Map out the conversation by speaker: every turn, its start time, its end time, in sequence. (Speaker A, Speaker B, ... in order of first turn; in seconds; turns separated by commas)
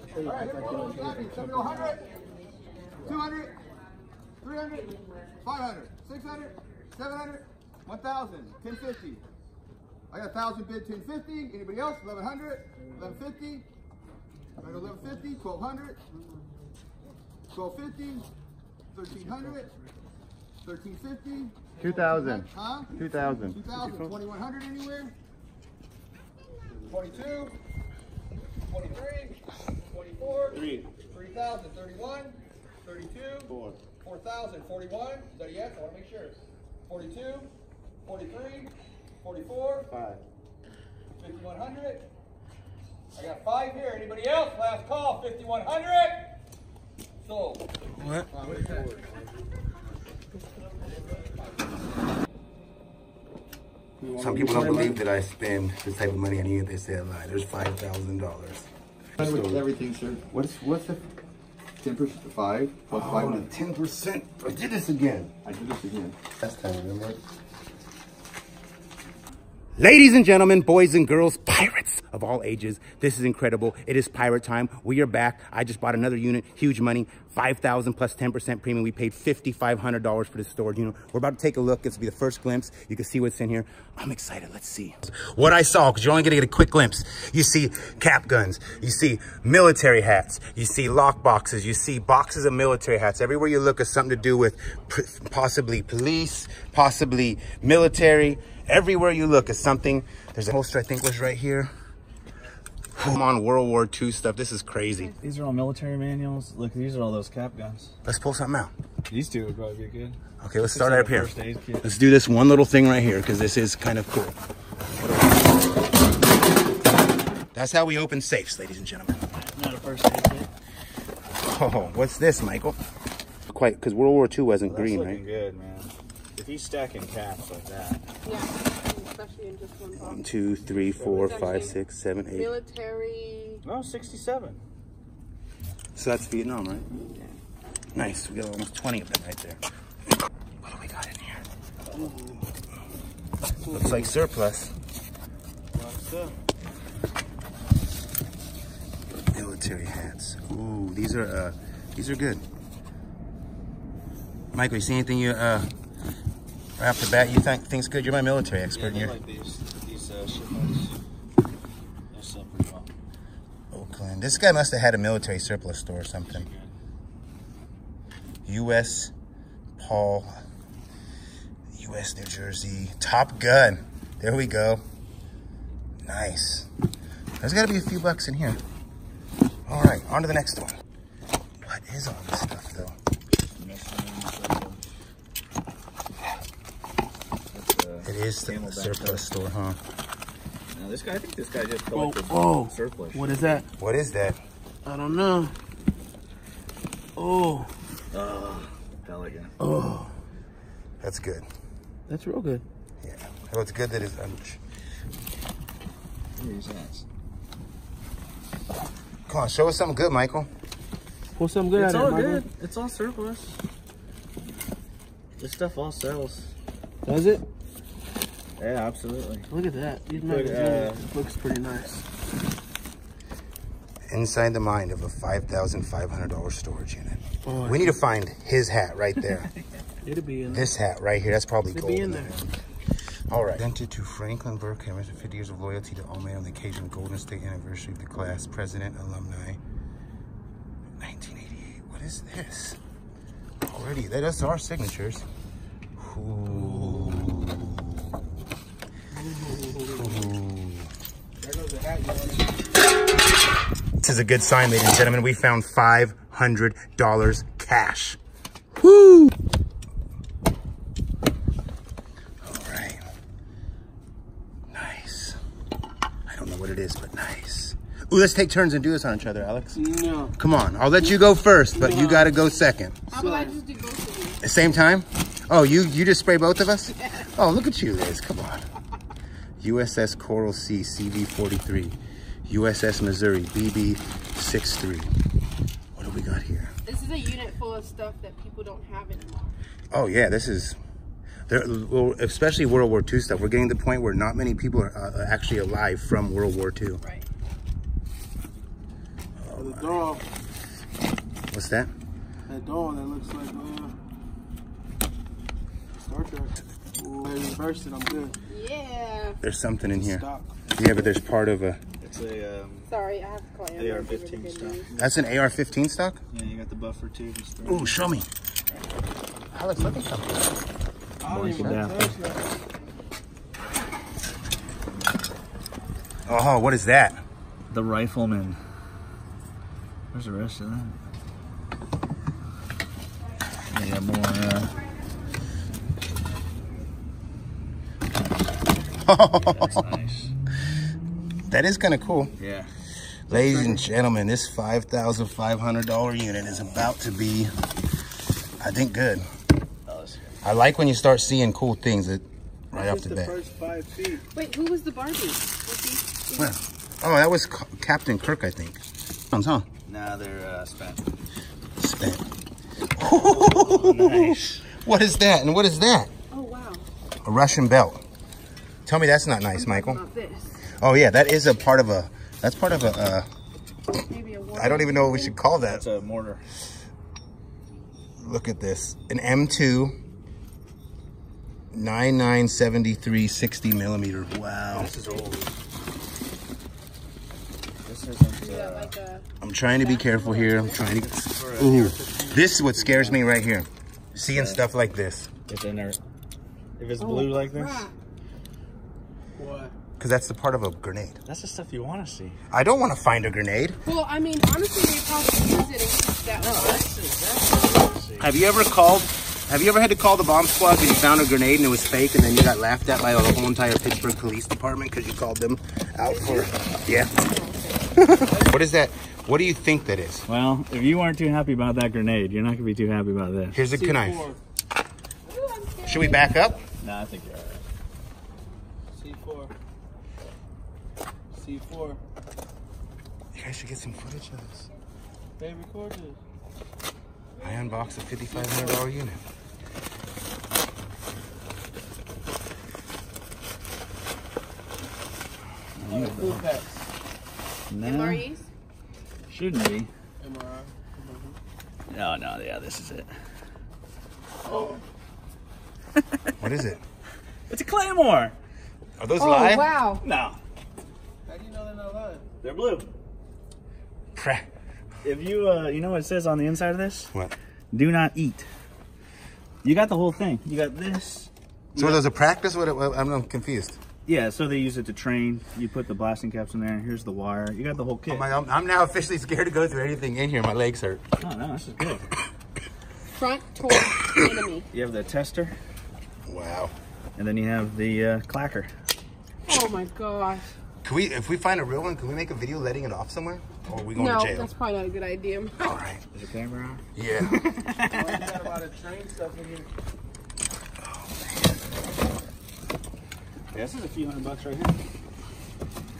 Speaker A: 0.1-1.7, Speaker B: 0.2-2.0, Speaker B: 3.0-3.6, Speaker B: 4.4-9.2, Speaker B: 10.1-13.7, Speaker B: 14.6-16.0, Speaker B: 17.5-18.3, Speaker B: 18.9-19.7, Speaker B: 20.6-25.1, Speaker C: 21.8-24.1, Speaker B: 26.9-27.6, Speaker B: 28.7-37.5, Speaker D: 30.5-30.9, Speaker D: 33.5-33.8, Speaker B: 38.0-39.9, Speaker D: 39.9-40.2, Speaker B: 41.2-42.1, Speaker B: 43.1-46.4, Speaker B: 47.2-47.7, Speaker A: 48.0-48.3, Speaker B: 48.3-49.1, Speaker A: 54.0-55.0, Speaker C: 54.1-59.6, Speaker B: 59.2-60.2, Speaker C: 60.3-61.1, Speaker B: 61.8-63.5, Speaker C: 62.9-65.3, Speaker D: 65.4-66.1, Speaker C: 66.4-67.2, Speaker C: 69.8-101.7, Speaker C: 103.0-105.1, Speaker D: 105.2-108.0, Speaker C: 108.0-108.7, Speaker D: 109.1-111.8, Speaker C: 110.4-111.3, Speaker C: 111.8-114.4, Speaker C: 117.5-119.2, Speaker D: 119.5-120.5, Speaker C: 121.3-122.8, Speaker C: 123.5-125.2, Speaker D: 124.7-128.0, Speaker E: 128.2-130.2, Speaker C: 129.9-132.5, Speaker D: 130.7-131.7, Speaker E: 131.2-131.7, Speaker E: 132.3-133.6, Speaker D: 133.6-134.6, Speaker C: 135.9-136.8, Speaker C: 137.9-139.6, Speaker C: 140.6-141.4, Speaker A: 141.9-142.5, Speaker A: 143.6-144.1, Speaker C: 143.7-144.7, Speaker A: 145.7-146.4, Speaker C: 149.3-152.4, Speaker C: 154.5-155.7, Speaker C: 156.8-159.1, Speaker D: 158.7-160.9, Speaker D: 162.1-162.9, Speaker C: 163.7-166.5, Speaker D: 166.3-166.7, Speaker C: 168.4-169.1, Speaker C: 169.8-170.4, Speaker C: 171.7-174.8, Speaker C: 176.1-176.7, Speaker C: 177.4-178.6, Speaker C: 179.7-180.8, Speaker C: 181.6-182.9, Speaker D: 183.6-184.8, Speaker D: 187.5-189.2, Speaker C: 188.0-189.8, Speaker D: 190.7-193.5, Speaker A: 191.9-193.7, Speaker C: 193.8-194.4, Speaker A: 194.8-195.5, Speaker A: 197.2-197.7, Speaker D: 198.1-199.5, Speaker A: 199.6-200.1, Speaker C: 201.0-201.4, Speaker A: 202.1-202.6, Speaker C: 203.0-204.6, Speaker D: 206.3-207.1, Speaker C: 209.3-210.5, Speaker A: 211.4-212.4, Speaker D: 211.7-213.6, Speaker D: 215.4-216.5, Speaker A: 217.0-217.4, Speaker D: 218.6-219.5, Speaker A: 219.5-222.0, Speaker D: 220.1-221.0, Speaker C: 224.1-229.5, Speaker A: 227.4-228.0, Speaker A: 230.0-230.7, Speaker C: 230.5-232.5, Speaker A: 231.7-232.3, Speaker C: 233.3-239.6, Speaker C: 241.0-242.8, Speaker C: 243.6-245.2, Speaker C: 245.9-248.4, Speaker A: 246.6-247.1, Speaker A: 249.2-250.3, Speaker C: 249.9-250.9, Speaker A: 251.4-252.5, Speaker C: 254.0-258.2, Speaker C: 258.8-259.3, Speaker C: 262.4-263.0, Speaker C: 264.7-265.4, Speaker C: 266.3-269.8, Speaker A: 269.7-270.3, Speaker C: 270.4-273.0, Speaker A: 271.7-272.3, Speaker E: 273.1-274.4, Speaker A: 273.1-273.6, Speaker C: 274.4-278.6, Speaker C: 279.6-285.1, Speaker C: 285.9-286.7, Speaker E: 286.9-289.5, Speaker C: 289.9-290.8, Speaker C: 291.5-297.0, Speaker C: 299.4-300.0, Speaker A: 299.5-300.2, Speaker C: 301.5-301.9, Speaker A: 302.5-303.9, Speaker A: 306.0-308.4, Speaker E: 308.5-309.4, Speaker C: 309.4-310.2, Speaker A: 309.9-310.5, Speaker C: 310.7-311.8, Speaker D: 312.0-312.9, Speaker E: 312.9-314.9, Speaker D: 313.7-315.1, Speaker C: 315.0-316.2, Speaker D: 316.3-318.0, Speaker C: 317.6-318.3, Speaker C: 319.5-320.5, Speaker A: 321.2-322.5, Speaker D: 321.3-322.1, Speaker C: 326.3-327.2, Speaker D: 327.7-328.6, Speaker D: 330.1-330.9, Speaker D: 333.7-334.8, Speaker C: 339.0-339.8, Speaker D: 339.4-340.3, Speaker C: 341.5-342.3, Speaker D: 342.4-342.7, Speaker C: 343.3-347.5, Speaker A: 343.3-343.8, Speaker C: 348.6-349.3, Speaker D: 349.9-350.4, Speaker C: 350.4-353.4, Speaker A: 352.7-354.2, Speaker E: 354.3-356.5, Speaker C: 356.3-359.7, Speaker D: 359.9-361.1, Speaker C: 361.8-362.2, Speaker C: 363.0-366.1, Speaker D: 363.4-364.6, Speaker E: 366.3-366.8, Speaker C: 367.2-368.0, Speaker C: 368.9-370.0, Speaker E: 369.6-370.7, Speaker C: 370.7-373.3, Speaker E: 374.0-375.4, Speaker C: 374.5-375.8, Speaker D: 375.6-376.4, Speaker C: 378.2-380.0, Speaker C: 381.7-384.9, Speaker D: 384.7-385.5, Speaker D: 387.8-388.9, Speaker E: 388.4-389.2, Speaker C: 389.4-395.3, Speaker E: 389.8-390.8, Speaker D: 390.9-393.2, Speaker D: 394.3-394.6, Speaker D: 395.4-396.0, Speaker D: 396.8-397.9, Speaker E: 397.0-397.9, Speaker A: 399.4-399.7, Speaker C: 400.0-401.2, Speaker D: 401.2-402.4, Speaker C: 402.5-403.8, Speaker E: 403.8-406.9, Speaker D: 406.4-408.3, Speaker C: 408.2-417.1, Speaker E: 416.0-418.0, Speaker C: 417.9-420.2, Speaker D: 420.3-423.6, Speaker C: 423.5-424.3, Speaker A: 423.7-424.4, Speaker E: 425.3-426.5, Speaker C: 425.9-426.6, Speaker D: 426.8-427.6, Speaker A: 428.9-429.5, Speaker A: 431.3-432.0, Speaker C: 433.3-434.7, Speaker A: 435.4-436.2, Speaker C: 437.4-439.2, Speaker C: 445.8-446.4, Speaker A: 445.9-446.9, Speaker D: 447.7-448.2, Speaker E: 447.8-448.5, Speaker D: 449.3-449.9, Speaker A: 450.2-451.4, Speaker D: 451.9-453.1, Speaker D: 454.4-454.8, Speaker D: 456.0-456.4, Speaker C: 456.4-456.8, Speaker D: 457.5-458.3, Speaker C: 459.0-459.7, Speaker E: 459.2-460.0, Speaker D: 460.0-460.4, Speaker A: 461.3-462.2, Speaker D: 462.4-462.9, Speaker C: 464.1-464.5, Speaker D: 465.0-467.1, Speaker D: 467.7-468.5, Speaker D: 469.6-472.0, Speaker C: 471.7-473.8, Speaker D: 474.1-478.3, Speaker C: 478.1-481.0, Speaker D: 481.2-482.1, Speaker E: 483.1-484.7, Speaker D: 484.7-485.6, Speaker C: 486.3-486.7, Speaker D: 487.1-488.7, Speaker E: 489.5-490.4, Speaker C: 490.8-494.5, Speaker E: 493.9-495.8, Speaker C: 495.6-496.0, Speaker D: 496.1-496.8, Speaker C: 496.9-497.8, Speaker D: 497.4-498.3, Speaker A: 497.9-499.7, Speaker C: 500.8-501.6, Speaker D: 503.5-504.8